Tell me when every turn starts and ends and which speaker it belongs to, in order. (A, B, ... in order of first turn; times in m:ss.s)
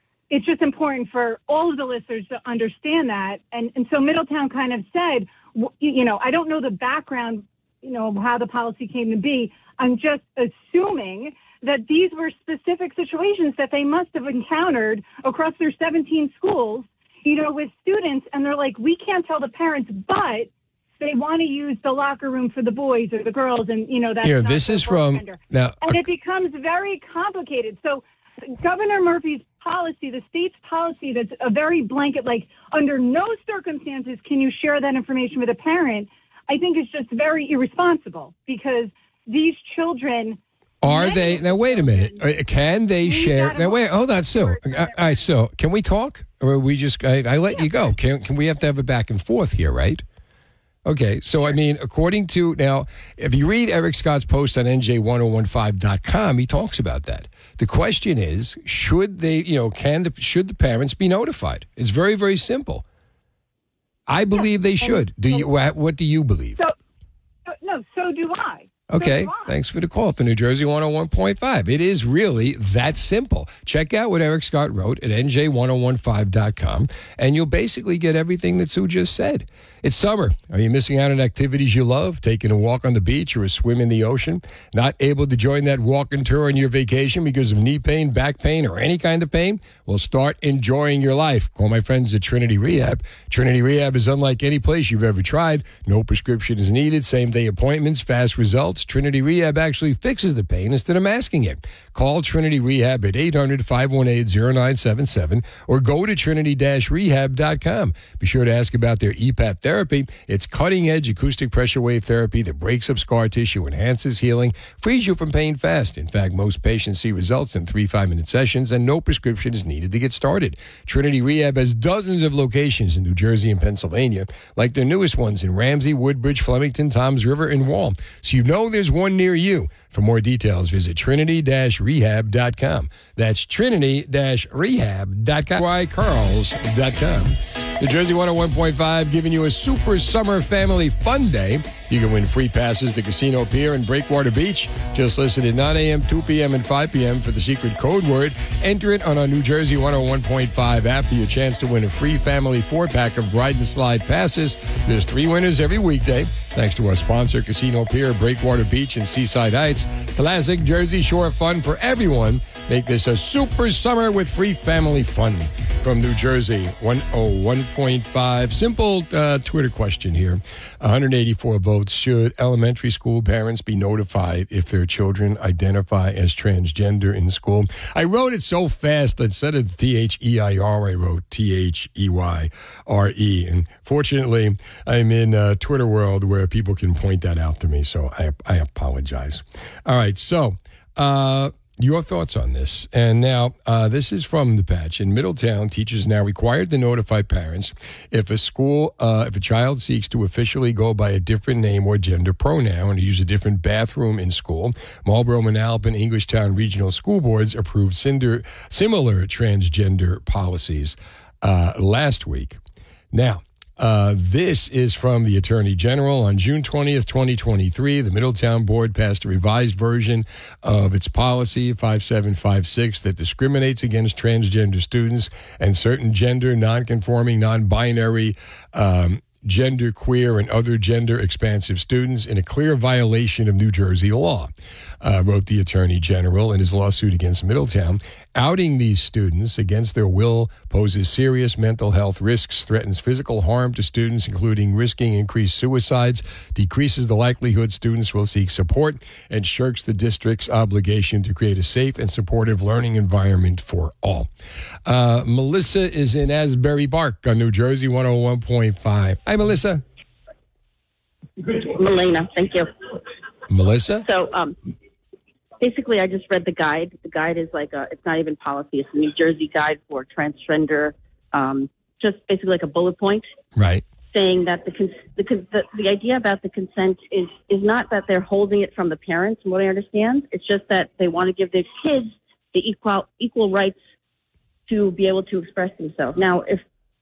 0:00.3-0:42.2 A
0:24.2-0:26.0 B
0:40.8-0:50.0 B
0:43.0-0:45.2 A
0:50.8-1:02.8 B
1:04.1-1:06.6 B
1:04.4-1:05.5 A
1:07.5-1:09.6 A
1:08.9-3:32.6 B
3:33.1-4:14.3 B
4:14.9-4:19.8 B
4:21.4-4:22.7 C
4:23.5-4:24.1 B
4:24.0-4:24.6 C
4:25.6-4:33.3 C
4:33.6-4:33.8 B
4:34.1-4:43.8 C
4:44.7-4:46.6 C